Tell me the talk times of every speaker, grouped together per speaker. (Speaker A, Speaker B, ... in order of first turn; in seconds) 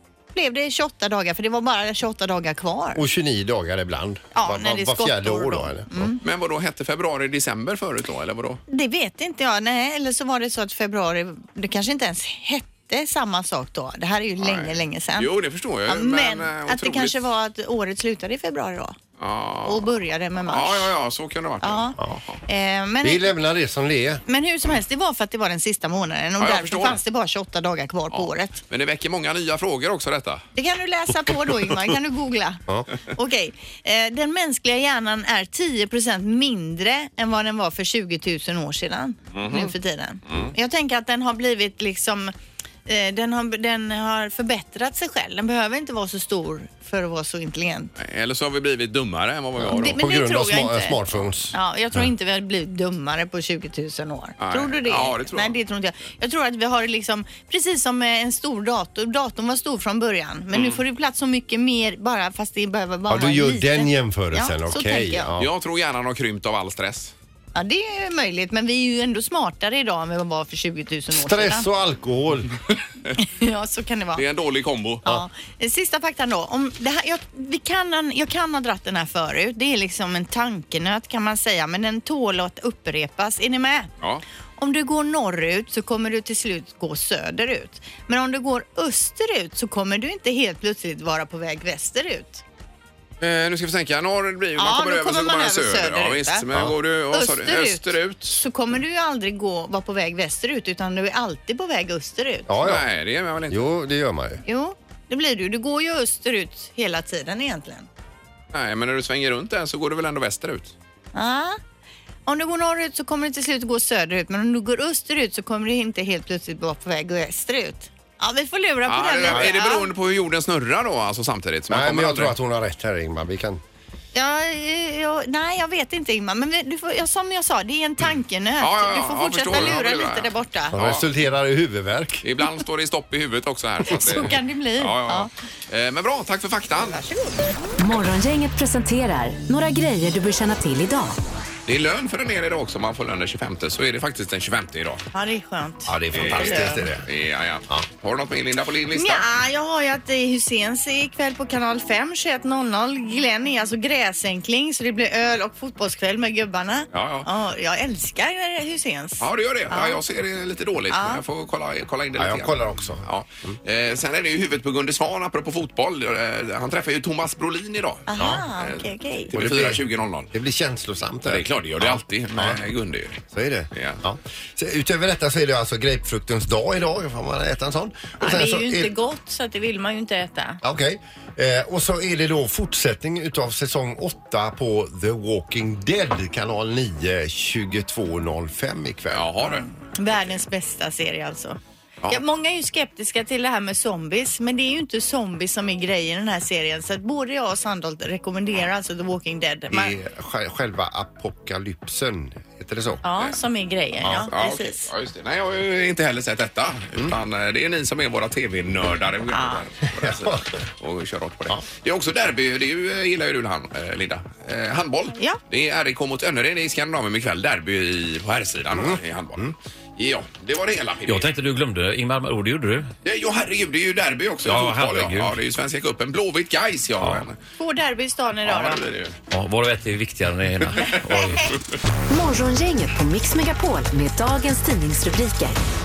Speaker A: 0.3-3.0, 4.3-6.2, 8.7-15.3, 15.9-19.0, 19.6-20.9, 21.6-23.3, 24.3-28.6, 30.6-42.3, 42.9-47.9, 49.8-51.0, 51.5-65.3, 67.5-71.7, 73.2-74.2, 75.0-83.9, 84.6-92.4, 94.6-96.4, 97.1-102.5, 104.5-107.9, 111.1-111.6, 112.3-119.9, 124.1-130.8, 133.9-135.3, 136.9-137.5, 145.1-146.9, 148.9-160.0, 160.9-161.2, 168.1-169.3, 178.2-180.6, 189.4-191.6, 192.1-200.0, 203.0-204.9, 209.3-209.6, 227.6-228.8
Speaker B: 2.9-6.1, 23.0-24.2, 49.6-51.5, 63.1-65.5, 71.1-72.6, 102.5-102.8, 103.5-104.4, 121.7-123.6, 130.7-132.2, 145.9-147.1, 162.2-163.1, 168.2-168.4, 169.3-172.6, 173.3-178.9, 180.6-189.3, 199.7-203.0, 204.0-204.3, 209.9-210.5, 218.7-219.5
Speaker C: 6.2-8.6, 14.4-17.2, 19.2-19.9, 20.5-22.4, 26.4-27.0, 28.1-30.4, 39.3-39.7, 40.3-40.5, 48.0-50.0, 54.4-55.6, 60.5-60.8, 65.4-67.1, 74.2-75.0, 93.2-98.4, 102.6-103.7, 108.5-110.7, 118.9-122.3, 128.6-131.1, 132.2-137.0, 141.7-145.0, 146.1-149.3, 156.9-157.3, 159.2-168.8, 169.3-170.3, 171.3-173.2, 173.7-174.0, 189.1-189.7, 204.3-221.3, 223.0-227.4, 228.4-229.2, 230.8-231.4
Speaker D: 137.8-141.2, 232.1-235.6
Speaker E: 221.1-222.9, 224.4-225.4, 229.3-231.5